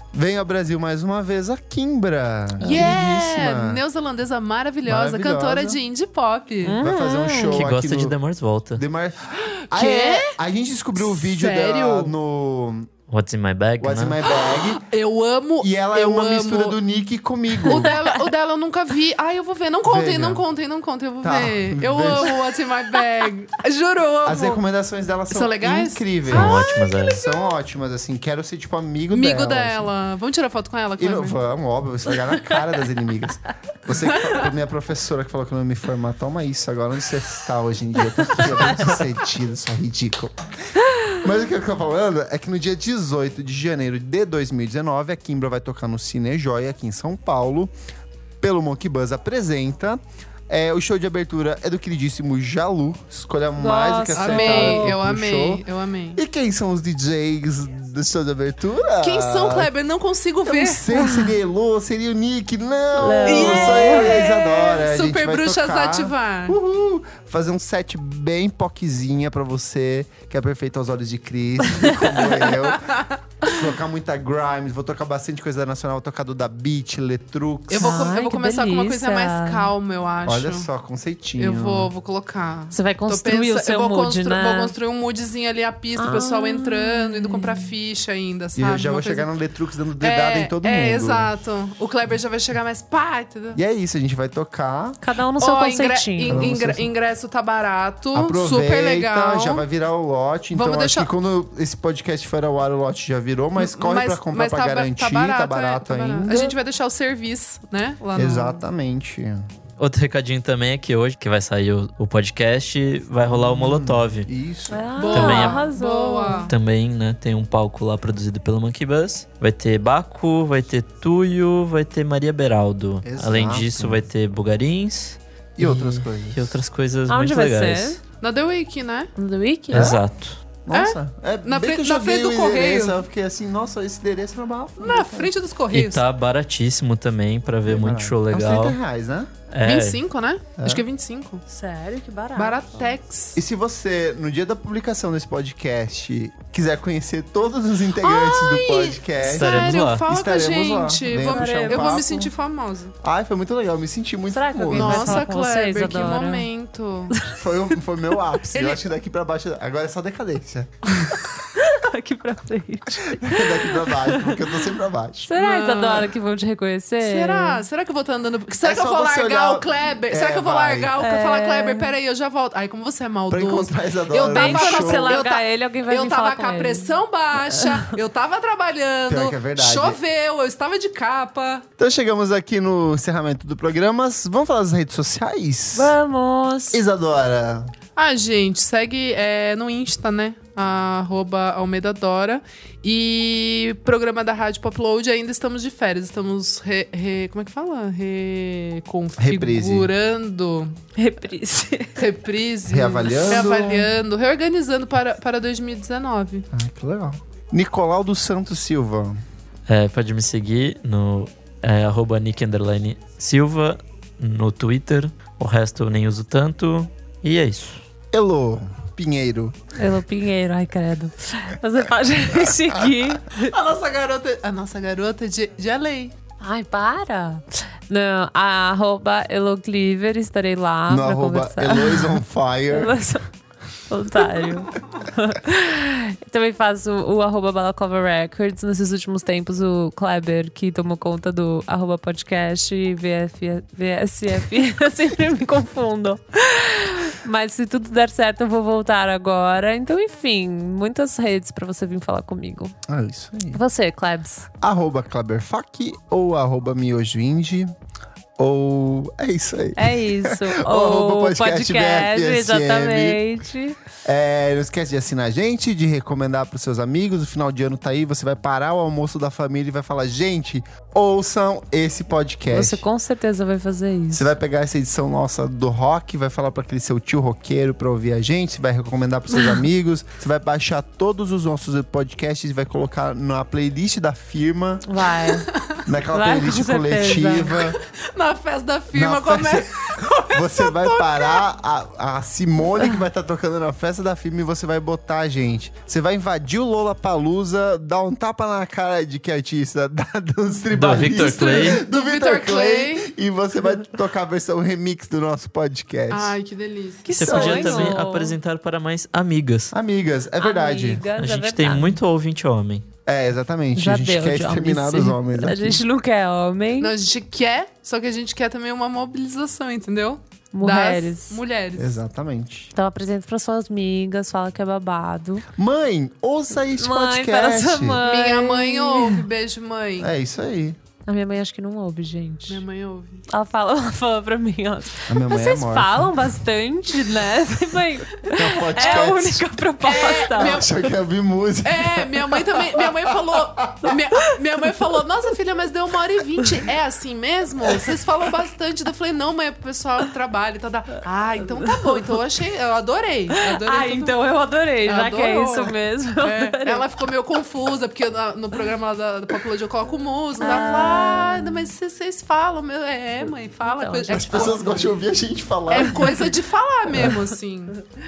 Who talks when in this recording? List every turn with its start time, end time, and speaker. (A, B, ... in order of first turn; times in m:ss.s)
0:00.1-0:03.8 A
0:02.6-0:03.0 B
0:02.6-0:06.8 C
0:04.8-0:05.8 A
0:06.6-0:07.6 B
0:06.8-0:08.1 A
0:07.4-0:08.8 D
0:08.7-0:12.9 A
0:09.7-0:10.4 C
0:11.0-0:12.1 C
0:13.1-0:14.2 D
0:13.8-0:14.9 A
0:14.3-0:16.8 C
0:15.6-0:17.9 A
0:17.6-0:24.6 C
0:19.8-0:20.4 A
0:21.2-0:22.4 A
0:24.2-0:26.6 A
0:25.3-0:27.5 C
0:26.3-0:27.2 D
0:27.1-0:29.9 A
0:29.1-0:31.4 C
0:31.0-0:40.3 A
0:33.9-0:34.3 C
0:41.1-0:47.7 A
0:48.4-0:55.6 A
0:53.6-0:54.9 B
0:54.1-0:56.2 C
0:56.2-0:59.7 A
0:59.0-1:00.8 C
1:00.4-1:18.1 A
1:00.9-1:01.3 B
1:03.0-1:04.2 B
1:03.2-1:06.6 C
1:11.8-1:12.1 B
1:12.0-1:13.2 C
1:17.7-1:20.7 C
1:17.8-1:19.7 B
1:20.2-1:21.9 A
1:21.4-1:29.3 C
1:22.7-1:24.7 B
1:26.0-1:27.7 B
1:28.6-1:31.3 A
1:30.0-1:33.6 C
1:33.5-1:35.0 A
1:35.0-1:36.4 B
1:35.4-1:39.6 C
1:36.3-1:36.9 A
1:38.1-1:46.6 A
1:40.5-1:41.1 C
1:43.6-1:48.6 C
1:48.1-1:49.5 A
1:49.8-1:54.3 D
1:53.3-1:55.0 A
1:54.7-1:56.5 B
1:55.0-1:56.5 C
1:55.1-1:55.7 D
1:56.5-2:08.0 D
2:03.0-2:04.0 A
2:05.6-2:06.6 A
2:07.1-2:08.0 B
2:08.2-2:09.1 C
2:09.2-2:10.0 B
2:09.7-2:10.4 D
2:09.7-2:10.0 A
2:10.6-2:15.3 A
2:10.7-2:13.0 C
2:14.8-2:16.0 C
2:15.7-2:18.8 D
2:17.7-2:19.3 A
2:19.5-2:20.0 D
2:19.6-2:21.4 C
2:20.6-2:20.8 A
2:21.5-2:22.9 B
2:22.4-2:23.4 C
2:23.3-2:32.3 A
2:28.0-2:32.9 C
2:29.2-2:30.0 D
2:31.1-2:32.3 B
2:33.0-2:35.3 A
2:34.3-2:36.5 B
2:34.7-2:37.2 C
2:37.1-2:37.4 B
2:37.3-2:41.0 A
2:38.5-2:38.8 C
2:40.9-2:44.4 B
2:43.1-2:45.3 A
2:45.2-2:47.6 B
2:45.3-2:46.1 C
2:47.0-3:01.6 C
2:48.6-2:51.0 A
2:51.0-2:51.9 B
2:53.3-2:55.2 A
2:54.2-2:57.0 B
2:57.6-2:57.8 B
2:59.1-3:00.0 A
3:01.8-3:05.9 A
3:05.7-3:06.8 B
3:06.7-3:07.7 A
3:08.0-3:20.8 C
3:19.2-3:19.9 A
3:21.0-3:22.1 B
3:22.0-3:26.5 C
3:22.7-3:23.9 A
3:26.5-3:29.2 A
3:29.7-3:37.8 D
3:38.1-3:39.5 A
3:39.7-3:43.5 B
3:43.4-3:46.1 C
3:46.4-3:53.3 B
3:50.9-3:53.0 A
3:53.9-4:12.7 B
4:12.8-4:13.6 A
4:13.5-4:14.5 B
4:14.6-4:17.7 A
4:18.4-4:23.2 A
4:19.8-4:23.8 B
4:24.0-4:32.8 A
4:32.5-4:34.2 B
4:34.1-4:45.0 A
4:44.8-4:45.5 B
4:45.3-4:45.8 C
4:45.8-4:47.8 A
4:46.1-4:47.6 B
4:47.7-4:51.4 C
4:48.9-5:06.4 A
5:00.7-5:01.8 D
5:01.0-5:03.1 C
5:06.1-5:07.4 C
5:07.0-5:08.4 B
5:07.1-5:09.7 D
5:07.3-5:07.9 A
5:09.7-5:11.1 A
5:10.4-5:12.0 B
5:11.2-5:12.8 D
5:13.0-5:15.8 A
5:13.8-5:16.9 B
5:16.8-5:22.0 C
5:20.5-5:21.4 B
5:21.8-5:22.7 A
5:22.7-5:25.4 B
5:25.6-5:28.0 A
5:26.8-5:29.2 B
5:28.0-5:30.1 C
5:30.0-5:30.8 A
5:31.1-5:32.6 B
5:32.5-5:33.2 C
5:33.3-5:40.9 B
5:35.1-5:36.1 A
5:38.2-5:39.4 A
5:38.7-5:39.2 C
5:39.8-5:40.9 C
5:40.0-5:44.0 A
5:41.6-5:54.1 C
5:51.4-5:52.2 B
5:53.4-5:56.8 B
5:54.8-6:04.9 C
6:00.4-6:01.5 B
6:03.6-6:04.6 B
6:04.1-6:06.3 A
6:05.7-6:07.8 C
6:06.9-6:07.2 A